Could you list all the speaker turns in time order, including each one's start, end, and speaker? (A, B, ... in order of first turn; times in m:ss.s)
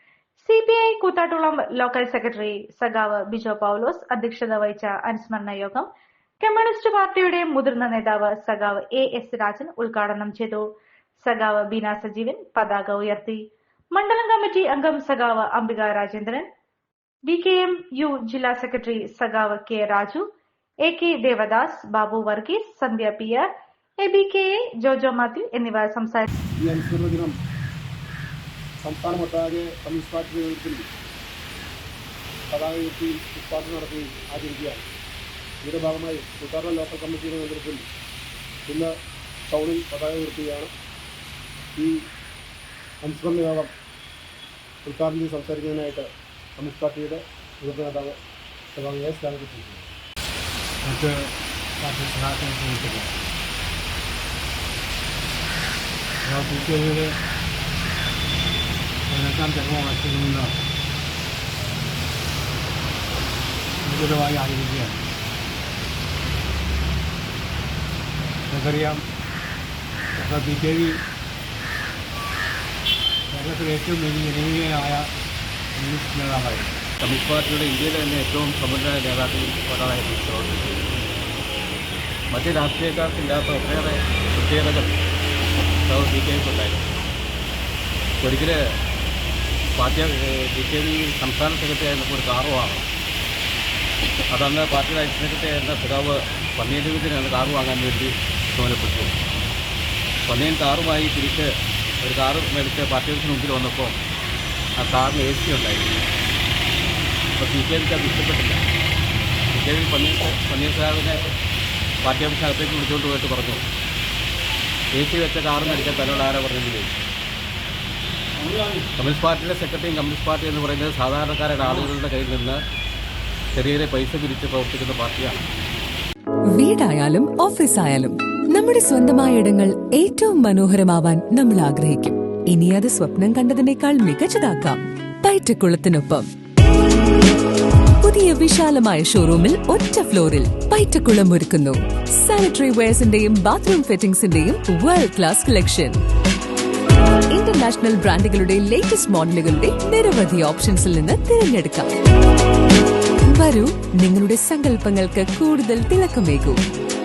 0:00.4-0:05.9 A
0:06.4-0:10.7 A
0:11.2-0:13.4 A
0:14.0-0:16.5 A
0:17.3-0:20.2 A
0:20.9-0:23.5 A
0:24.0-0:26.3 A
0:26.6-0:27.3 B
0:28.8-0:30.8 B
0:32.5-0:34.8 B
0:35.6-0:37.8 B
0:39.5-0:40.7 B
0:43.0-0:43.7 B
0:44.8-0:48.2 B
0:48.7-0:49.9 B
0:50.8-0:53.1 C
0:56.2-0:57.2 C
0:59.1-1:00.6 C
1:03.8-1:05.0 C
1:08.5-1:09.0 C
1:10.2-1:11.0 C
1:13.3-1:15.1 C
1:15.8-1:16.7 C
1:17.0-1:20.9 D
1:22.3-1:25.0 D
1:25.9-1:26.9 D
1:28.2-1:28.6 D
1:29.8-1:32.9 D
1:34.3-1:39.2 D
1:40.3-1:41.5 D
1:42.0-1:44.0 D
1:44.8-1:46.0 D
1:47.4-1:48.6 D
1:49.5-1:51.3 D
1:52.0-1:53.6 D
1:55.0-1:57.0 D
1:58.5-1:58.8 C
1:59.0-2:02.6 D
2:03.5-2:05.4 D
2:06.6-2:16.3 E
2:18.0-2:26.0 E
2:27.3-2:31.9 E
2:33.3-2:36.6 E